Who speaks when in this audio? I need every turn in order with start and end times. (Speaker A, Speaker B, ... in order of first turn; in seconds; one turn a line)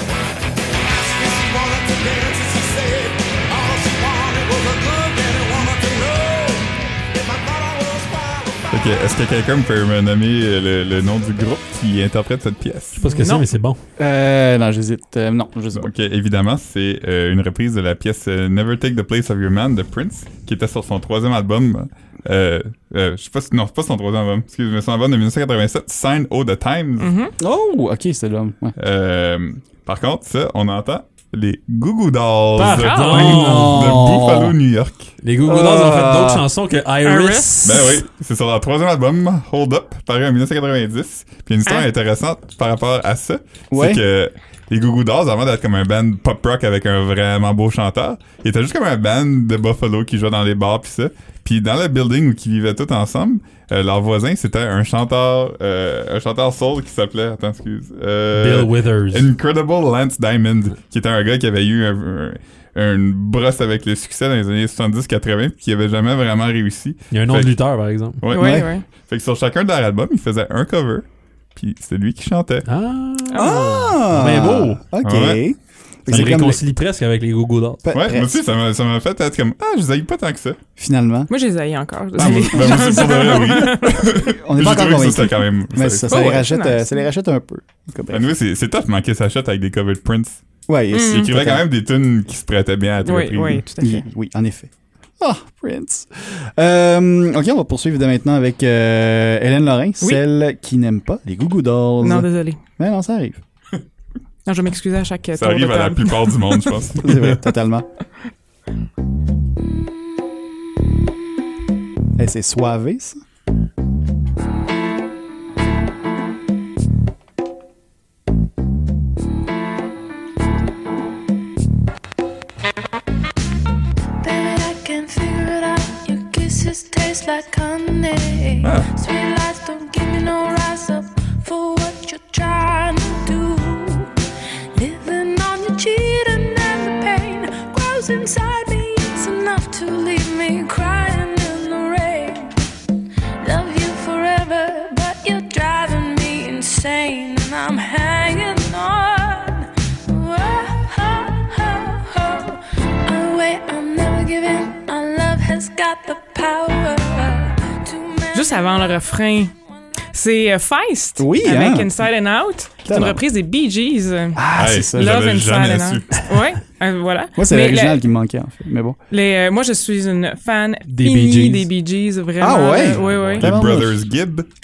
Speaker A: 0.8-8.7
Speaker B: 8.7-13.0
Speaker C: 13.0-13.8
Speaker D: 14.0-15.9
Speaker B: 15.7-27.1
Speaker E: 27.0-27.3
Speaker D: 27.4-28.8
Speaker B: 28.8-35.1
Speaker C: 32.6-34.1
Speaker D: 33.1-34.5
Speaker C: 35.2-37.9
Speaker D: 35.4-36.5
Speaker E: 37.1-37.4
Speaker B: 37.6-67.6
Speaker D: 43.7-44.0
Speaker C: 58.3-59.3
Speaker C: 67.1-68.2
Speaker B: 68.2-72.7
Speaker E: 68.3-68.8
Speaker D: 68.3-68.7
Speaker C: 72.7-74.8
Speaker D: 73.3-76.6
Speaker B: 75.0-75.4
Speaker C: 76.1-77.8
Speaker D: 77.8-78.3
Speaker B: 77.9-80.6
Speaker D: 80.8-81.3
Speaker E: 81.3-84.0
Speaker B: 82.2-86.3
Speaker D: 82.2-82.9
Speaker D: 84.4-88.3
Speaker E: 86.1-86.9
Speaker B: 88.1-90.4
Speaker D: 90.7-91.6
Speaker B: 90.9-93.6
Speaker E: 93.1-94.0
Speaker D: 93.8-103.4
Speaker E: 102.0-102.6
Speaker E: 104.5-106.2
Speaker B: 105.4-107.1
Speaker D: 107.0-107.9
Speaker D: 112.2-113.2
Speaker F: 124.2-134.1
Speaker B: 128.6-128.9
Speaker F: 134.8-142.5
Speaker F: 143.4-152.6
Speaker F: 153.1-158.5
Speaker E: 158.3-159.5
Speaker E: 160.1-164.4
Speaker D: 161.2-161.9
Speaker D: 162.9-163.2
Speaker D: 164.4-165.1
Speaker B: 164.6-166.3
Speaker E: 165.0-167.9
Speaker D: 167.4-169.0
Speaker E: 169.1-173.4
Speaker C: 170.9-171.7
Speaker D: 172.4-174.0
Speaker C: 173.0-173.4
Speaker B: 173.3-174.5